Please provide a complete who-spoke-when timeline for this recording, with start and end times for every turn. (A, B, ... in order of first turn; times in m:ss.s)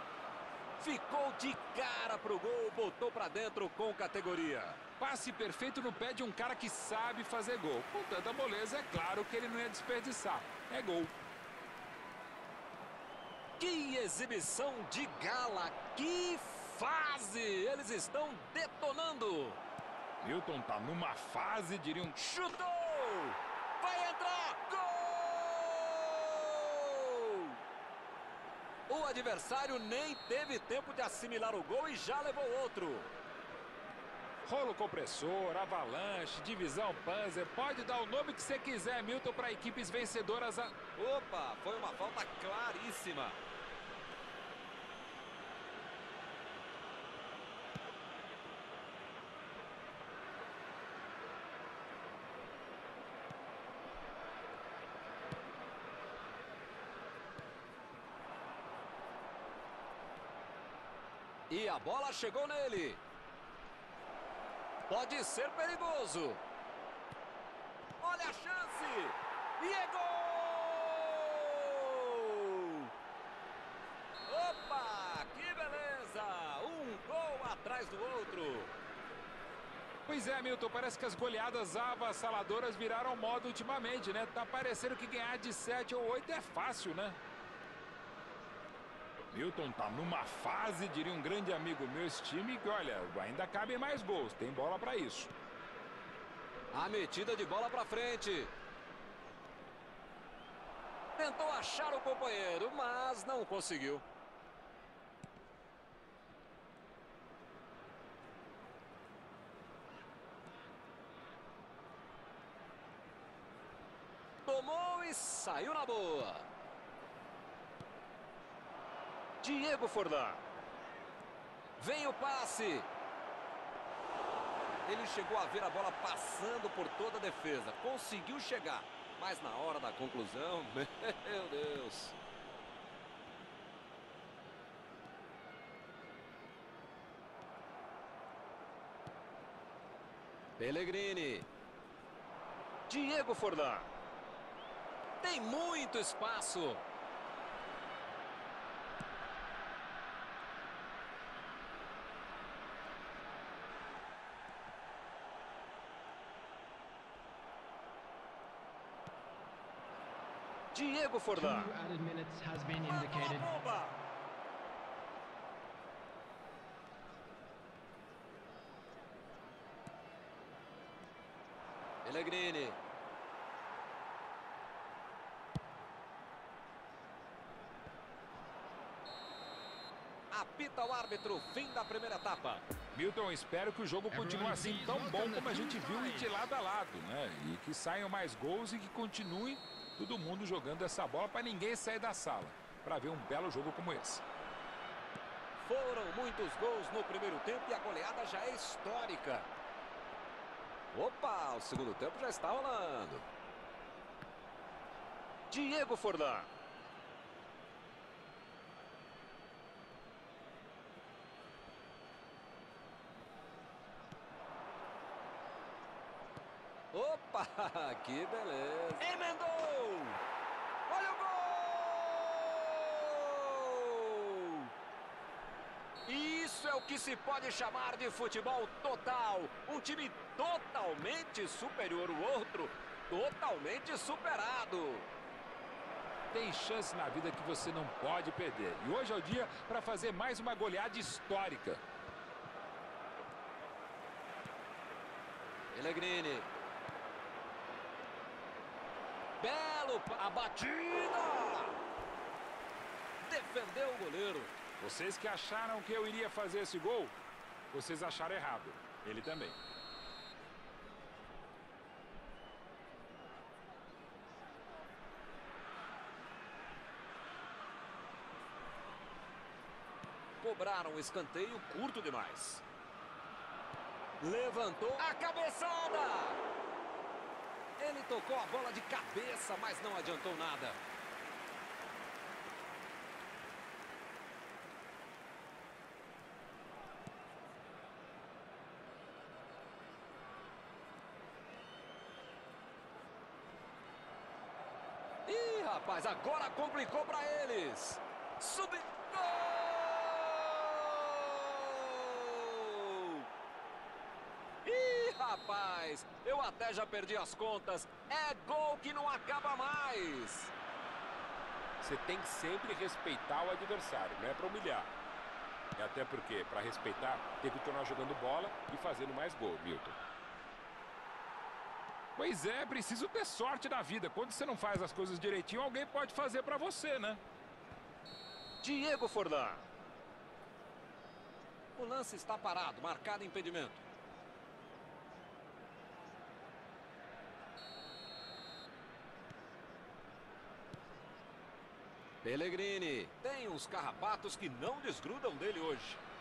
0:00.8-0:04.8 A
0:05.0-0:11.1 B
0:13.6-0:19.6 A
0:20.2-0:22.2 B
0:22.2-0:27.6 A
0:28.9-0:33.1 A
0:34.5-0:40.8 B
0:41.0-0:43.4 A
1:01.5-1:03.0 A
1:04.9-1:06.4 A
1:08.0-1:12.9 A
1:14.3-1:18.7 A
1:20.1-1:27.2 B
1:29.3-1:35.3 B
1:36.7-1:38.5 A
1:41.2-1:44.0 A
1:54.4-1:56.5 A
1:59.4-2:00.4 A
2:01.8-2:02.9 A
2:04.8-2:12.2 A
2:20.6-2:21.5 A
2:22.9-2:23.9 A
2:25.2-2:26.8 A
2:40.7-2:41.7 A
2:41.3-2:43.6 C
2:42.9-2:44.0 A
2:52.0-2:52.8 A
3:00.3-3:02.6 A
3:02.9-3:14.2 B
3:04.1-3:06.5 C
3:15.6-3:19.5 A
3:20.9-3:23.3 A
3:25.5-3:26.5 A
3:36.9-3:40.2 A
3:40.9-3:44.7 A
3:46.1-3:55.1 A
3:56.3-4:01.8 B
4:05.7-4:06.5 A
4:09.4-4:11.8 A
4:13.2-4:14.6 A
4:14.8-4:17.2 B
4:17.7-4:19.6 B
4:30.4-4:32.6 A
4:34.2-4:36.4 A
4:37.8-4:40.8 A
4:55.3-5:03.2 A
5:04.6-5:10.5 A
5:11.8-5:14.9 B
5:15.8-5:20.0 B
5:22.2-5:27.2 B
5:28.6-5:29.6 A
5:31.8-5:33.8 A
5:42.2-5:46.0 A